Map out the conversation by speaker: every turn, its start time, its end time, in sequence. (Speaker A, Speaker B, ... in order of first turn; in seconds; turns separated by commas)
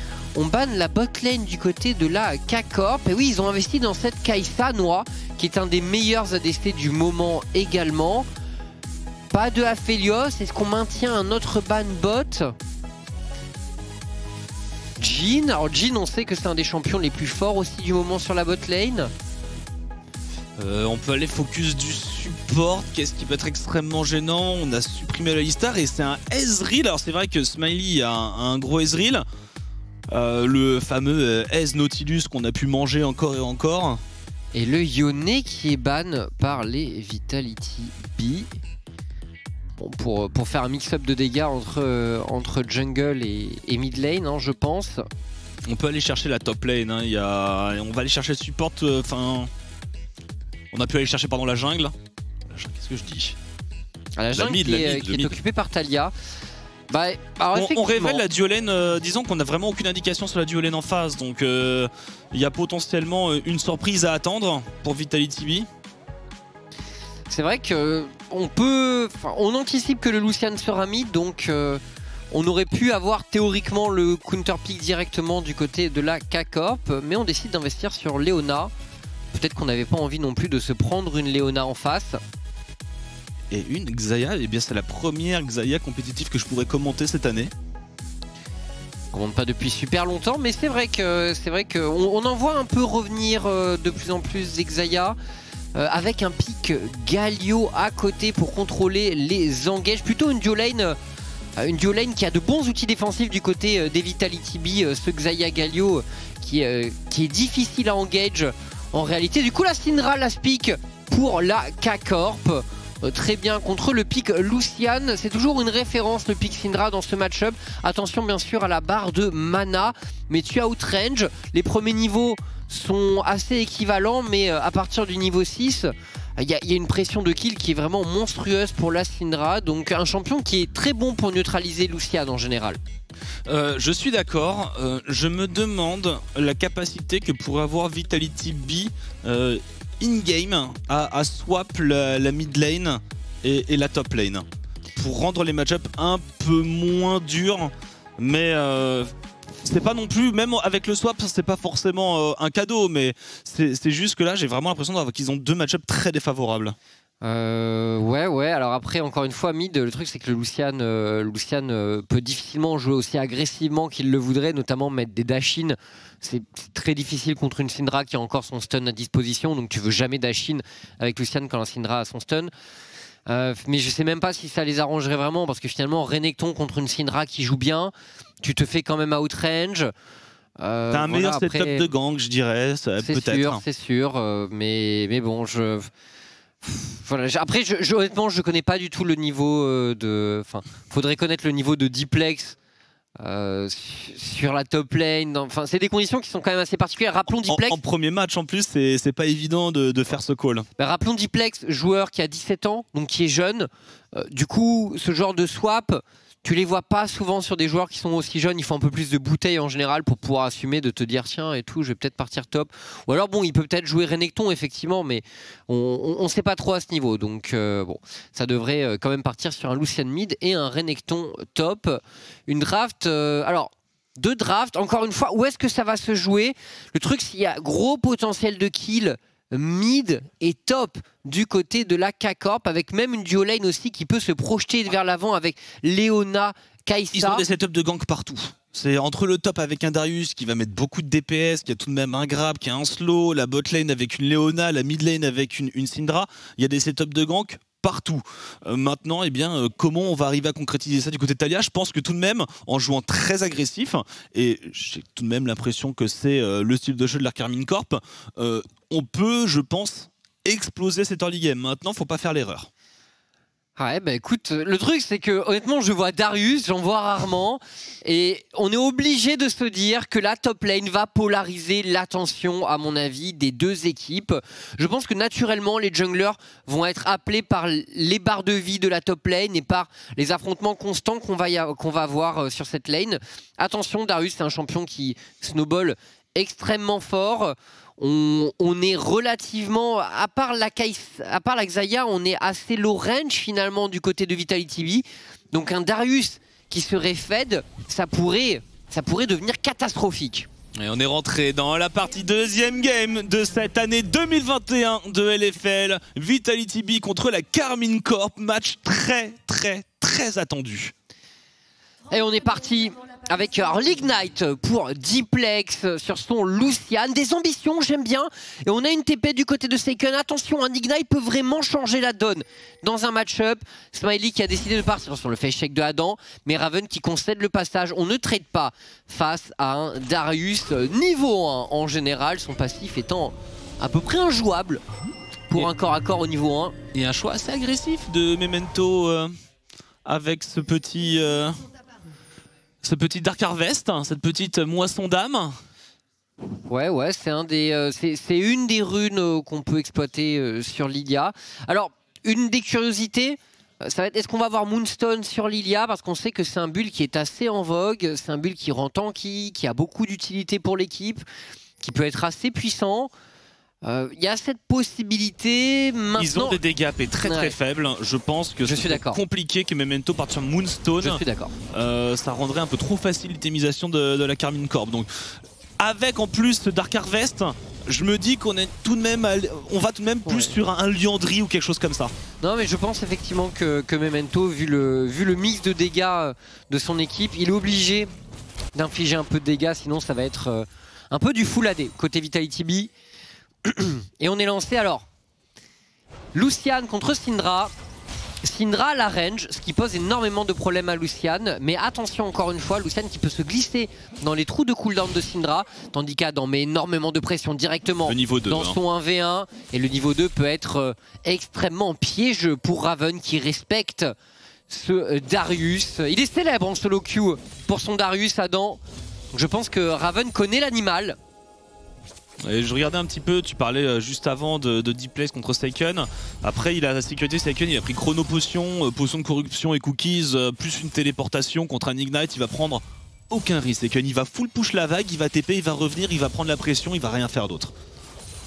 Speaker A: 0.3-8.3, Speaker A: 9.3-12.5, Speaker A: 15.0-19.1, Speaker B: 20.6-29.2, Speaker B: 30.1-34.0, Speaker A: 34.5-38.5, Speaker A: 39.8-45.0, Speaker B: 45.7-49.5, Speaker B: 50.7-51.9, Speaker B: 52.5-53.4, Speaker A: 54.2-56.1, Speaker B: 54.4-55.4, Speaker A: 56.9-58.2, Speaker B: 57.5-65.7, Speaker A: 67.3-78.7, Speaker A: 79.3-82.2, Speaker B: 83.5-87.5, Speaker A: 89.1-95.2, Speaker A: 95.8-101.0, Speaker A: 101.6-132.8, Speaker B: 133.5-149.1, Speaker B: 149.6-156.8, Speaker A: 157.2-172.5, Speaker A: 173.3-179.9, Speaker A: 180.6-181.9, Speaker B: 180.9-183.6, Speaker A: 183.0-185.9, Speaker A: 186.6-192.6, Speaker A: 193.2-197.8, Speaker B: 197.3-200.7, Speaker A: 200.8-237.4, Speaker B: 237.1-262.7, Speaker A: 263.8-300.5, Speaker B: 300.8-310.9, Speaker A: 312.1-334.8, Speaker A: 335.5-336.8, Speaker B: 336.9-339.3, Speaker B: 340.1-341.6, Speaker B: 342.8-345.6, Speaker A: 346.7-361.2, Speaker A: 361.8-363.1, Speaker A: 363.8-366.6, Speaker B: 366.2-375.1, Speaker A: 367.2-367.6, Speaker A: 368.6-369.2, Speaker A: 371.0-371.5, Speaker B: 375.8-382.1, Speaker A: 380.3-380.5, Speaker A: 382.4-388.1, Speaker A: 388.8-392.9, Speaker A: 393.6-395.1, Speaker A: 396.3-397.7, Speaker A: 398.4-414.1, Speaker B: 408.1-408.8, Speaker A: 414.7-418.8, Speaker A: 419.3-421.2, Speaker B: 422.4-437.7